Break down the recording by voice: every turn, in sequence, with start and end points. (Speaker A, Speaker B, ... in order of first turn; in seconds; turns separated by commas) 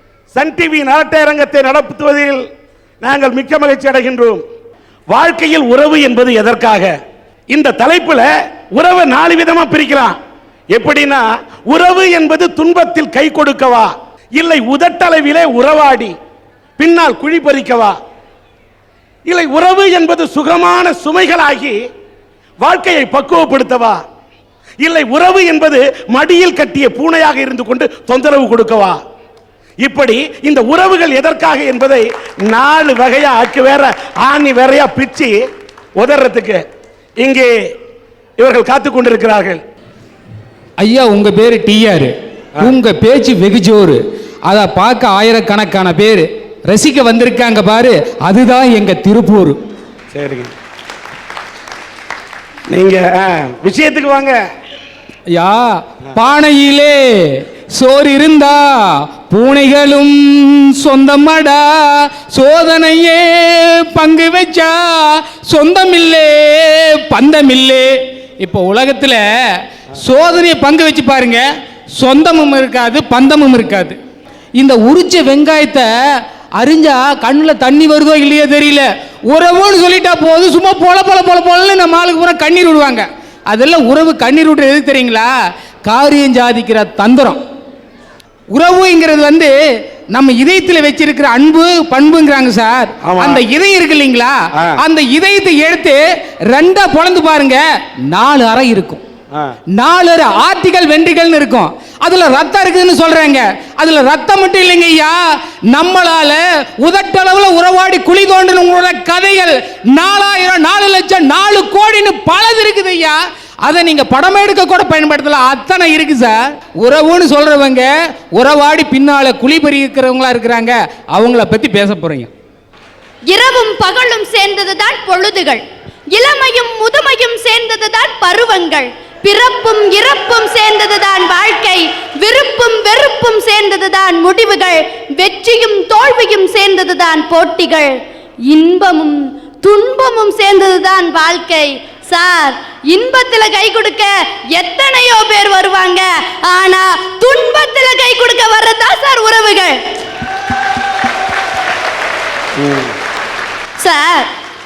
Speaker A: 0.3-2.4, Speaker A: 3.0-4.4, Speaker A: 5.1-6.9, Speaker A: 7.5-10.2, Speaker A: 10.7-16.1, Speaker A: 16.8-18.0, Speaker A: 19.3-21.8, Speaker A: 22.6-24.0, Speaker A: 24.8-29.0, Speaker A: 29.8-35.4, Speaker A: 36.0-36.6, Speaker A: 37.2-37.5, Speaker A: 38.4-39.6, Speaker B: 40.8-49.6, Speaker A: 50.1-50.5, Speaker A: 52.7-54.4, Speaker B: 55.3-58.6, Speaker B: 59.3-71.5, Speaker B: 72.0-74.0, Speaker B: 74.6-75.9, Speaker B: 76.5-85.3, Speaker B: 85.8-87.4, Speaker B: 88.5-89.5, Speaker B: 90.1-99.0, Speaker A: 93.0-93.4, Speaker B: 99.8-105.2, Speaker B: 105.7-122.3, Speaker C: 123.3-149.8, Speaker A: 152.6-152.9, Speaker C: 153.8-154.3